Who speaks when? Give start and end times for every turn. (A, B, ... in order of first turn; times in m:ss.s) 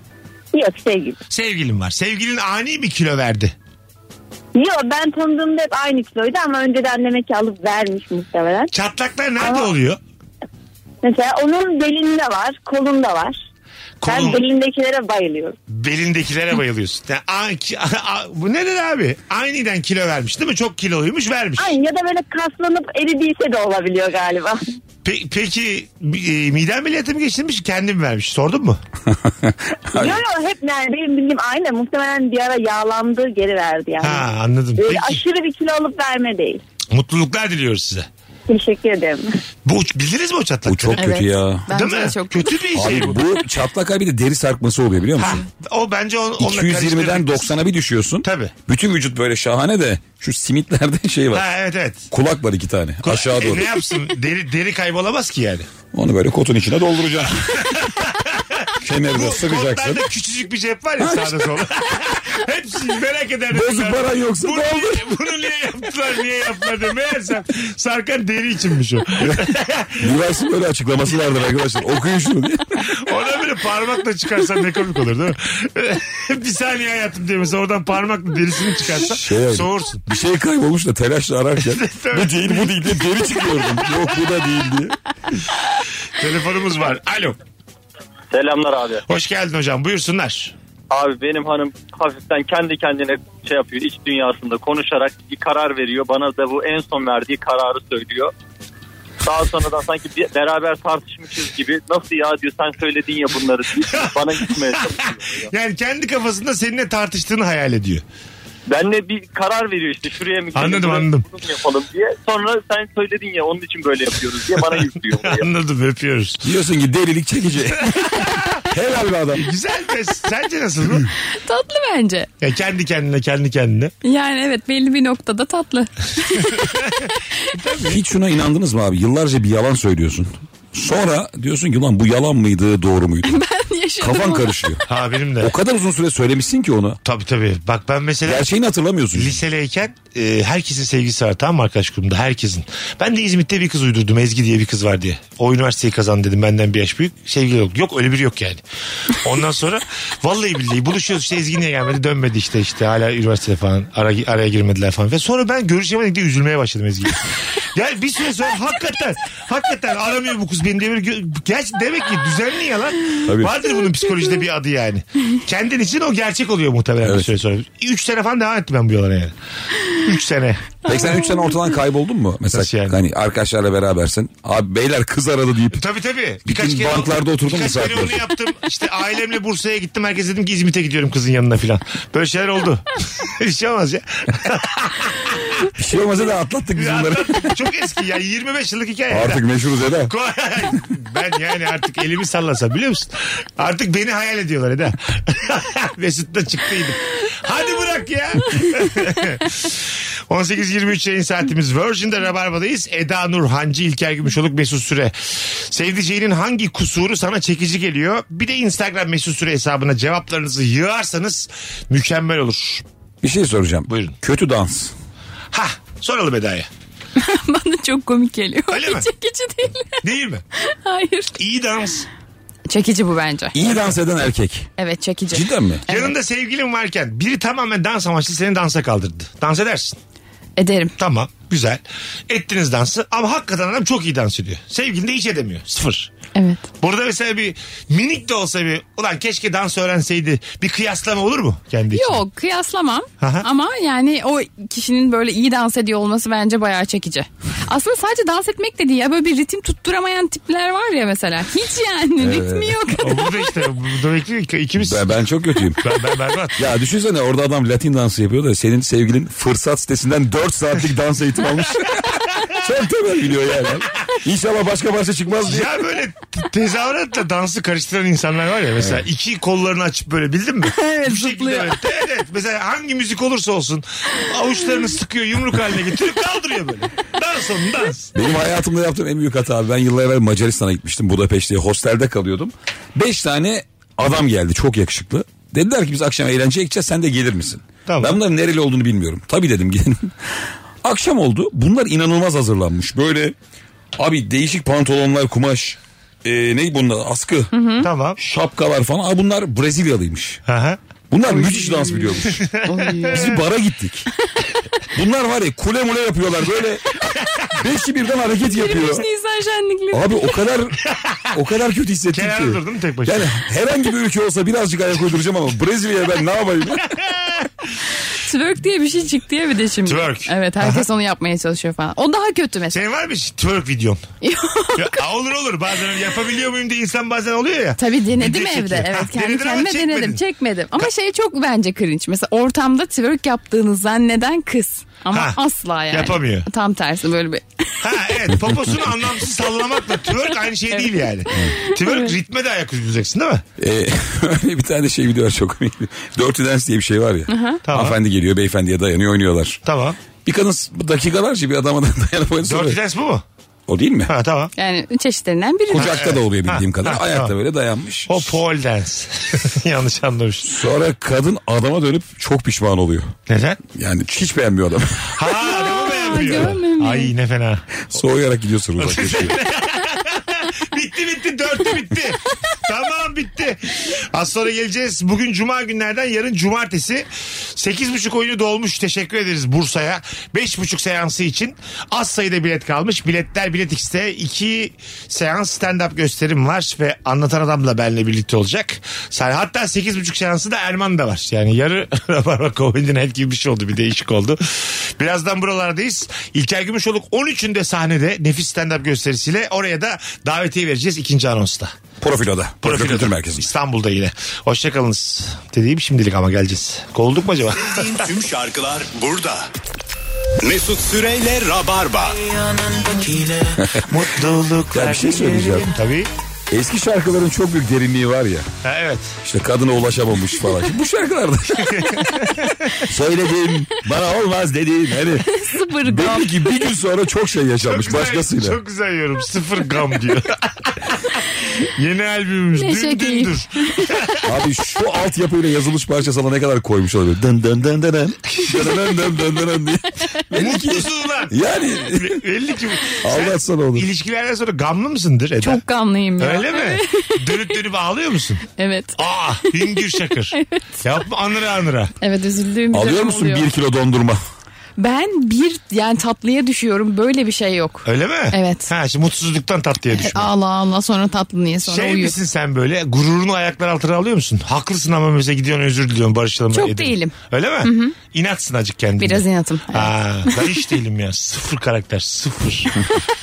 0:00.5-0:01.2 A
0:01.3-0:03.5 B
0:04.5-0:08.7 A
0:08.7-0:10.0 B
0:09.4-0:09.7 A
0:11.0-0:13.4 A
0:14.0-0:14.4 B
0:14.0-0:15.6 A
0:15.7-0:21.7 B
0:21.6-0:24.6 A
0:25.0-0:28.8 B
0:29.1-0:30.2 C
0:29.9-0:36.6 A
0:34.0-0:35.2 B
0:36.9-0:38.1 B
0:38.5-0:39.3 A
0:39.6-0:41.0 B
0:40.6-0:41.7 C
0:41.0-0:42.5 D
0:41.7-0:43.2 B
0:42.7-0:45.4 C
0:45.2-0:47.5 B
0:46.4-0:51.4 C
0:48.2-0:48.5 B
0:51.3-0:52.1 B
0:52.1-0:53.8 C
0:53.0-0:55.7 B
0:55.9-0:57.7 C
0:57.6-1:10.0 B
0:58.8-1:00.0 C
1:01.0-1:01.6 C
1:03.5-1:05.1 C
1:10.0-1:12.8 C
1:12.9-1:20.0 B
1:19.0-1:25.0 C
1:21.6-1:23.0 B
1:26.2-1:27.4 B
1:28.3-1:29.0 E
1:29.1-1:30.5 B
1:30.9-1:38.3 E
1:39.2-1:45.5 E
1:43.9-1:44.5 B
1:45.5-1:48.0 B
1:48.7-1:55.5 E
1:50.5-1:51.2 B
1:55.2-1:56.4 B
1:56.4-1:59.5 C
1:57.9-1:58.5 B
1:59.4-2:01.1 B
2:01.3-2:02.3 D
2:02.4-2:03.9 B
2:04.0-2:06.8 D
2:06.5-2:08.0 B
2:07.8-2:13.4 C
2:13.2-2:14.5 D
2:14.0-2:14.8 C
2:14.9-2:15.5 B
2:15.4-2:17.0 C
2:17.0-2:18.5 B
2:18.2-2:19.4 C
2:19.1-2:49.3 B
2:43.2-2:43.5 C
2:47.0-2:47.3 C
2:50.0-2:50.8 B
2:50.8-2:51.7 D
2:50.8-2:55.8 C
2:52.5-2:53.0 B
2:55.7-3:05.5 B
2:56.4-2:58.2 C
3:05.7-3:07.5 C
3:06.8-3:09.4 B
3:09.1-3:10.1 C
3:10.1-3:32.8 B
3:33.2-3:34.9 C
3:33.9-3:34.1 B
3:35.5-3:36.7 B
3:37.2-3:40.0 D
3:38.7-3:39.0 B
3:40.0-3:40.4 B
3:40.6-3:41.3 D
3:41.4-3:42.1 B
3:42.7-3:43.6 D
3:43.5-3:44.7 C
3:44.8-3:46.1 D
3:45.3-3:45.8 C
3:45.9-3:50.0 B
3:50.6-3:50.9 D
3:51.0-3:56.1 B
3:56.3-3:56.7 D
3:56.8-4:02.2 B
4:01.9-4:13.3 D
4:03.2-4:03.4 B
4:12.2-4:13.0 C
4:13.0-4:15.0 B
4:14.8-4:15.8 C
4:15.8-4:16.6 B
4:16.6-4:25.8 C
4:25.4-4:38.1 B
4:28.8-4:29.0 C
4:30.7-4:31.8 D
4:38.1-4:50.1 C
4:47.8-4:48.2 B
4:50.8-4:53.3 C
4:54.0-4:57.5 C
4:57.5-4:57.9 D
4:57.8-4:58.2 B
4:58.2-5:00.4 C
5:00.5-5:00.8 B
5:01.1-5:02.5 C
5:01.3-5:02.0 D
5:02.3-5:03.3 B
5:02.6-5:03.4 D
5:03.1-5:04.1 C
5:04.9-5:06.9 C
5:07.6-5:09.0 C
5:08.5-5:10.0 D
5:09.9-5:10.8 C
5:10.9-5:11.2 B
5:11.3-5:16.9 C
5:12.1-5:13.3 B
5:16.9-5:17.5 B
5:18.2-5:22.8 D
5:19.8-5:20.8 B
5:22.7-5:24.0 B
5:24.2-5:25.0 D
5:24.8-5:30.2 B
5:27.8-5:37.8 D
5:35.1-5:35.4 B
5:35.9-5:36.5 B
5:37.8-5:43.4 B
5:40.7-5:42.1 D
5:43.6-5:49.6 C
5:47.3-5:47.6 D
5:47.6-5:48.0 B
5:49.6-5:50.0 B
5:50.2-5:52.8 C
5:52.4-5:53.2 B
5:53.7-5:54.1 C
5:54.1-5:54.5 B
5:54.6-5:56.0 D
5:55.7-5:58.4 C
5:55.7-5:57.3 B
5:58.1-6:00.5 B
6:00.4-6:03.1 C
6:03.3-6:03.6 B
6:03.7-6:05.2 C
6:05.2-6:07.6 B
6:05.4-6:07.1 D
6:07.9-6:09.4 C
6:08.8-6:41.7 B
6:42.0-6:43.5 C
6:42.6-6:48.1 B
6:47.6-6:49.5 F
6:50.4-6:53.4 F
6:53.6-6:53.8 C
6:53.9-6:56.1 B
6:54.7-6:55.7 C
6:56.5-6:58.5 C
6:58.6-6:59.2 B
6:59.2-7:02.0 C
7:01.6-7:02.6 B
7:02.8-7:05.2 C
7:05.2-7:06.4 D
7:05.8-7:08.6 C
7:07.7-7:14.2 B
7:12.6-7:13.8 D
7:14.2-7:22.2 C
7:20.4-7:21.3 B
7:22.0-7:25.6 B
7:23.0-7:23.9 C
7:25.4-7:27.3 D
7:26.2-7:28.4 B
7:28.6-7:29.0 D
7:29.0-7:31.9 B
7:29.8-7:30.8 D
7:32.0-7:33.5 D
7:32.7-7:34.2 C
7:34.8-7:38.7 D
7:37.8-7:40.3 B
7:40.0-7:42.1 D
7:41.6-7:52.8 B
7:46.5-7:47.9 D
7:49.0-7:49.9 D